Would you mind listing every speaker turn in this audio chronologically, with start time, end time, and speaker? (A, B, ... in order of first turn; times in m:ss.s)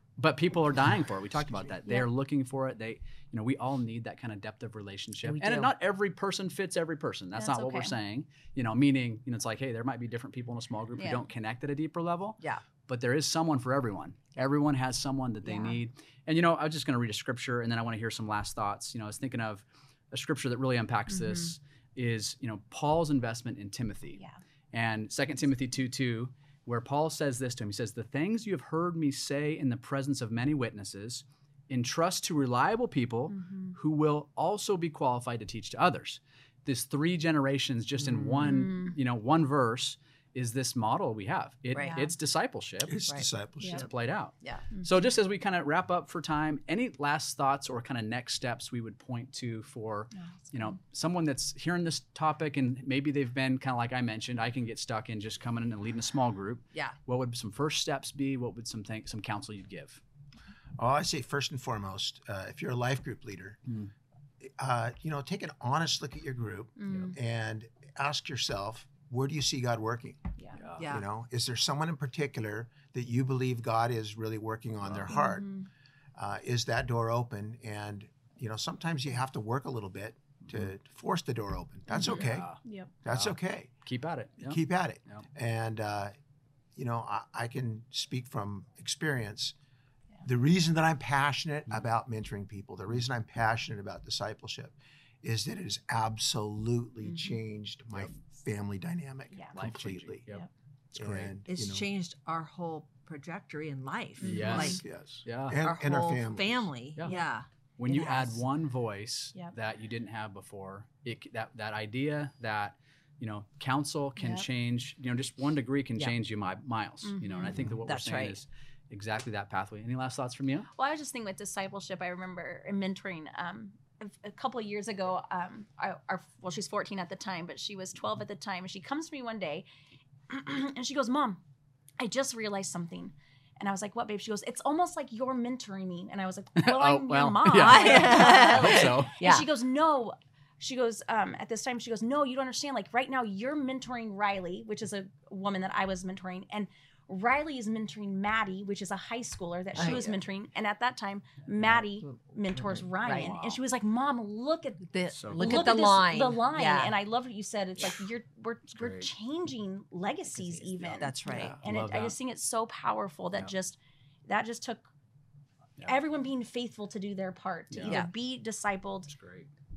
0:00.2-0:24.2 A
0:05.2-0:05.7 B
0:07.4-0:08.0 C
0:11.0-0:11.3 C
0:15.4-0:15.8 C
0:21.1-0:21.5 C
0:24.7-0:43.0 A
0:33.3-0:33.8 C
0:38.0-0:38.4 B
0:38.4-0:39.0 C
0:41.7-0:42.0 B
0:41.8-0:42.1 C
0:42.9-0:43.9 D
0:43.1-0:43.9 B
0:43.6-1:00.0 A
0:50.2-0:50.8 C
1:00.8-1:03.6 D
1:04.4-1:10.2 D
1:06.8-1:07.2 C
1:10.6-1:10.8 A
1:10.8-1:11.1 B
1:10.8-1:15.5 D
1:14.8-1:15.2 A
1:15.1-1:15.7 C
1:16.2-1:22.5 D
1:21.9-1:22.9 C
1:22.0-1:25.3 A
1:23.0-1:23.7 D
1:24.4-1:26.1 D
1:26.8-1:29.6 D
1:30.2-1:40.2 D
1:37.1-1:37.4 C
1:39.6-1:40.4 A
1:40.9-1:41.9 D
1:41.0-1:41.3 A
1:41.4-1:44.8 B
1:44.2-1:44.8 C
1:44.2-1:45.6 A
1:44.5-1:46.7 D
1:45.6-1:48.4 B
1:47.8-2:00.7 A
1:54.2-1:54.5 C
1:57.0-1:57.7 C
1:57.8-1:58.4 B
2:00.7-2:09.6 C
2:10.3-2:11.4 C
2:12.0-2:44.8 C
2:16.6-2:19.1 A
2:17.5-2:19.5 B
2:29.8-2:30.2 B
2:29.8-2:30.0 A
2:32.0-2:33.6 B
2:34.8-2:37.0 B
2:35.2-2:35.8 A
2:38.8-2:39.1 A
2:40.4-2:42.2 A
2:40.9-2:41.6 B
2:45.8-2:49.1 C
2:47.7-2:48.0 A
2:47.8-2:48.1 B
2:49.1-2:49.5 A